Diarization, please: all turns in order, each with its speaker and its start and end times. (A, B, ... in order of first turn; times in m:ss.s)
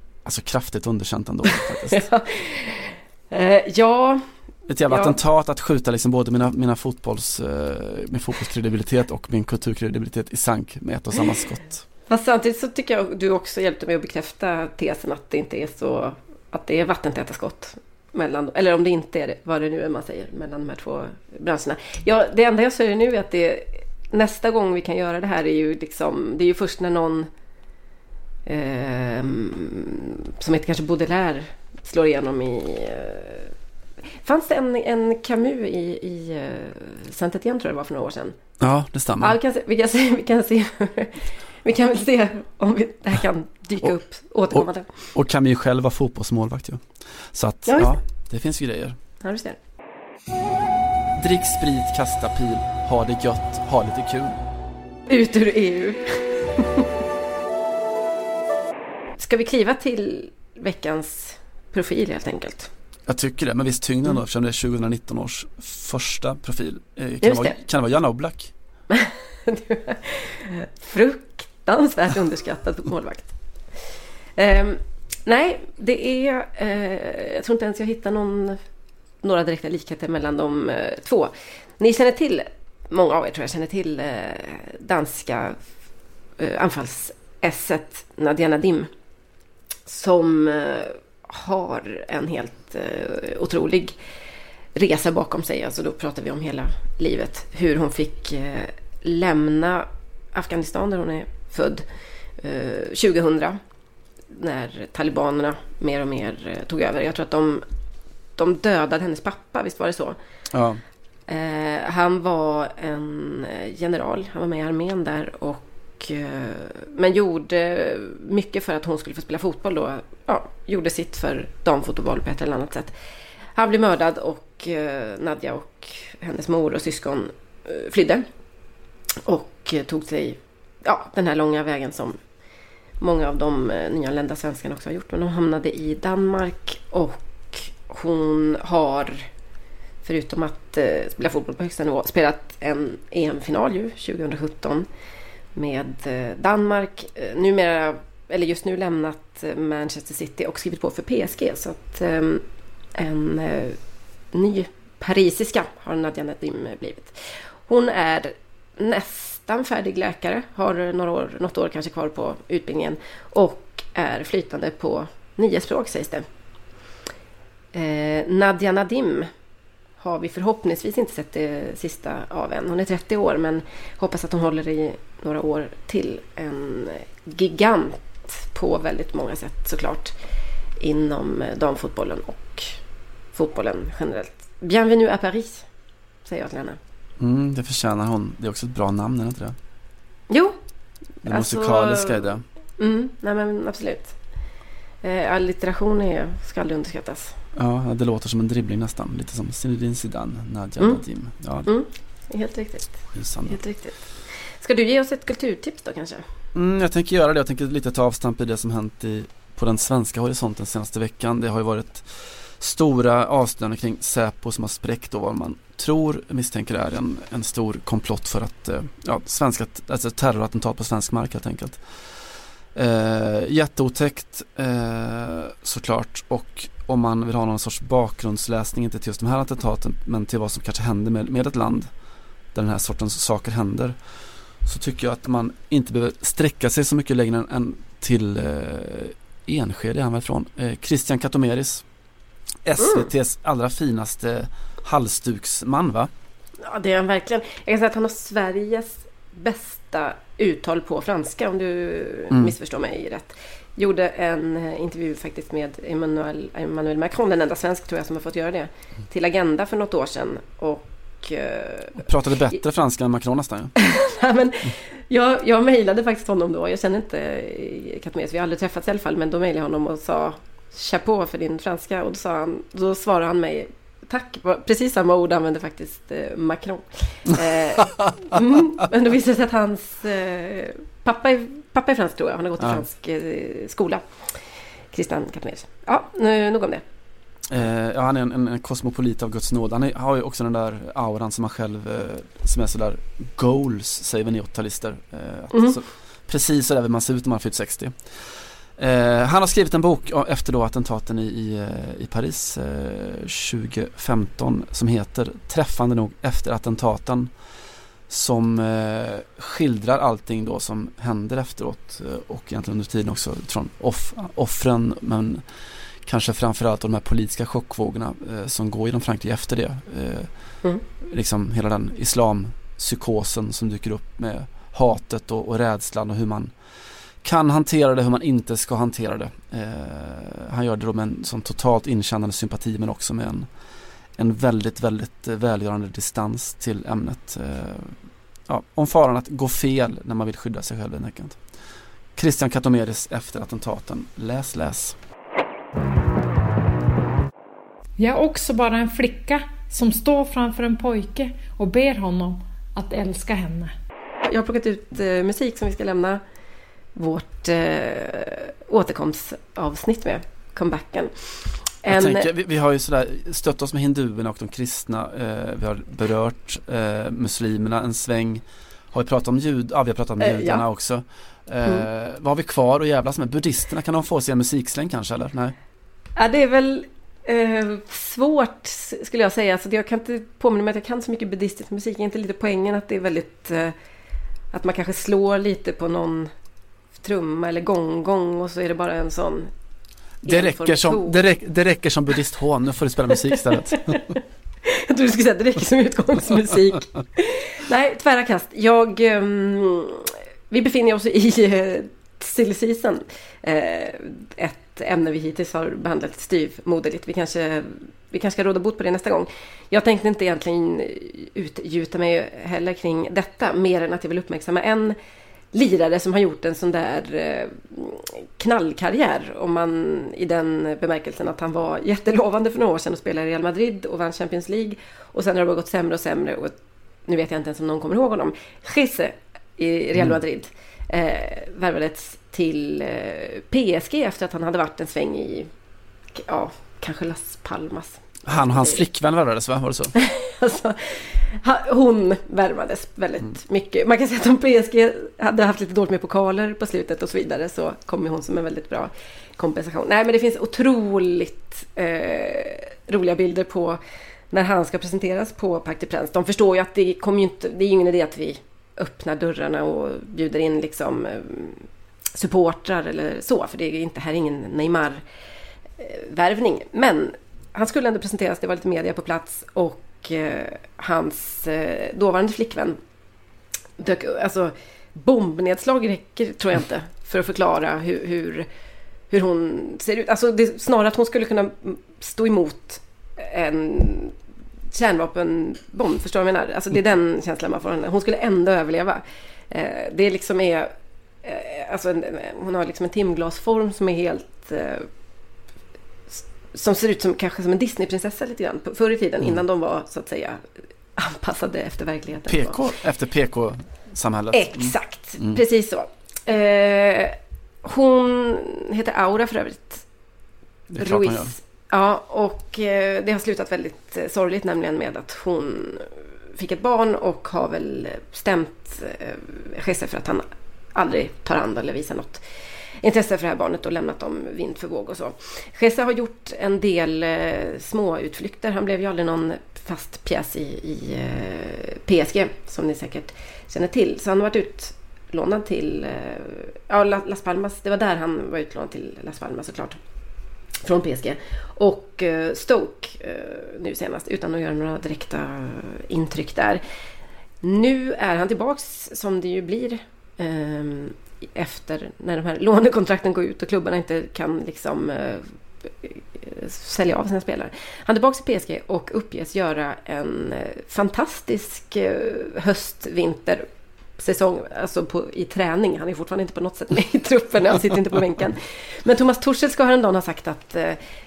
0:00.2-0:02.0 A
0:01.5-0:04.2 B
0:04.7-0:11.8 A
0:04.9-0:05.2 B
0:12.1-0:27.3 B
0:28.5-0:33.5 B
0:34.2-0:38.4 B
0:38.6-0:39.4 A
0:39.2-0:44.9 B
0:44.5-0:49.0 A
0:47.7-0:47.9 B
0:49.2-0:49.6 B
0:51.2-0:54.4 A
0:55.1-0:56.9 B
0:59.2-1:02.7 B
1:03.1-1:08.5 A
1:07.2-1:07.6 B
1:08.9-1:13.3 B
1:14.4-1:18.6 B
1:19.2-1:25.6 B
1:26.4-1:28.9 B
1:29.9-1:34.0 B
1:34.8-1:41.8 B
1:42.4-1:43.6 B
1:44.3-1:47.6 B
1:48.4-1:50.2 B
1:50.5-1:50.8 A
1:51.3-2:02.9 B
2:03.6-2:08.3 B
2:09.2-2:12.2 B
2:13.0-2:19.3 B
2:20.0-2:24.9 B
2:25.6-2:32.4 B
2:33.0-2:33.8 B
2:34.3-2:46.3 B
2:47.7-2:49.3 B
2:50.0-3:00.1 B
3:00.8-3:02.8 B
3:03.3-3:05.6 B
3:06.2-3:06.8 B
3:07.2-3:09.6 A
3:10.3-3:10.6 B
3:11.2-3:12.4 A
3:11.3-3:14.1 B
3:15.0-3:17.4 B
3:17.6-3:21.7 A
3:21.7-3:24.0 B
3:23.1-3:23.6 A
3:24.6-3:26.2 B
3:26.5-3:41.8 A
3:42.8-3:51.9 A
3:52.5-3:54.0 A
3:54.6-4:01.8 A
4:02.6-4:06.1 A
4:02.8-4:03.1 B
4:06.6-4:22.0 B
4:22.0-4:23.7 A
4:23.8-4:44.0 B
4:37.8-4:38.1 A
4:44.9-4:46.8 B
4:47.5-4:58.0 A
4:58.8-5:07.3 A
5:08.1-5:15.4 A
5:16.0-5:20.3 A
5:21.0-5:26.5 A
5:27.2-5:33.5 A
5:34.2-5:41.4 A
5:42.2-5:45.0 A
5:48.0-5:53.7 C
5:54.3-5:56.2 B
5:57.0-6:01.1 B
6:01.8-6:02.3 B
6:01.9-6:15.6 A
6:10.2-6:10.6 B
6:16.2-6:23.7 B
6:24.5-6:26.3 B
6:27.0-6:29.5 B
6:30.2-6:34.1 A
6:30.2-6:31.2 B
6:33.3-6:55.0 B
6:55.5-7:06.6 B
7:07.1-7:15.5 B
7:16.1-7:18.8 B
7:18.3-7:19.9 A
7:20.0-7:33.8 B
7:34.3-7:45.0 B
7:45.8-7:52.8 B
7:53.8-7:58.5 B
7:59.1-8:04.1 B
8:04.7-8:10.7 B
8:11.2-8:14.9 B
8:16.1-8:20.4 B
8:21.0-8:22.6 B
8:22.3-8:25.4 A
8:24.3-8:29.8 B
8:30.7-8:31.3 A
8:30.8-8:42.2 B
8:42.8-8:59.8 B
9:00.6-9:06.6 B
9:07.4-9:23.5 B
9:24.0-9:30.8 B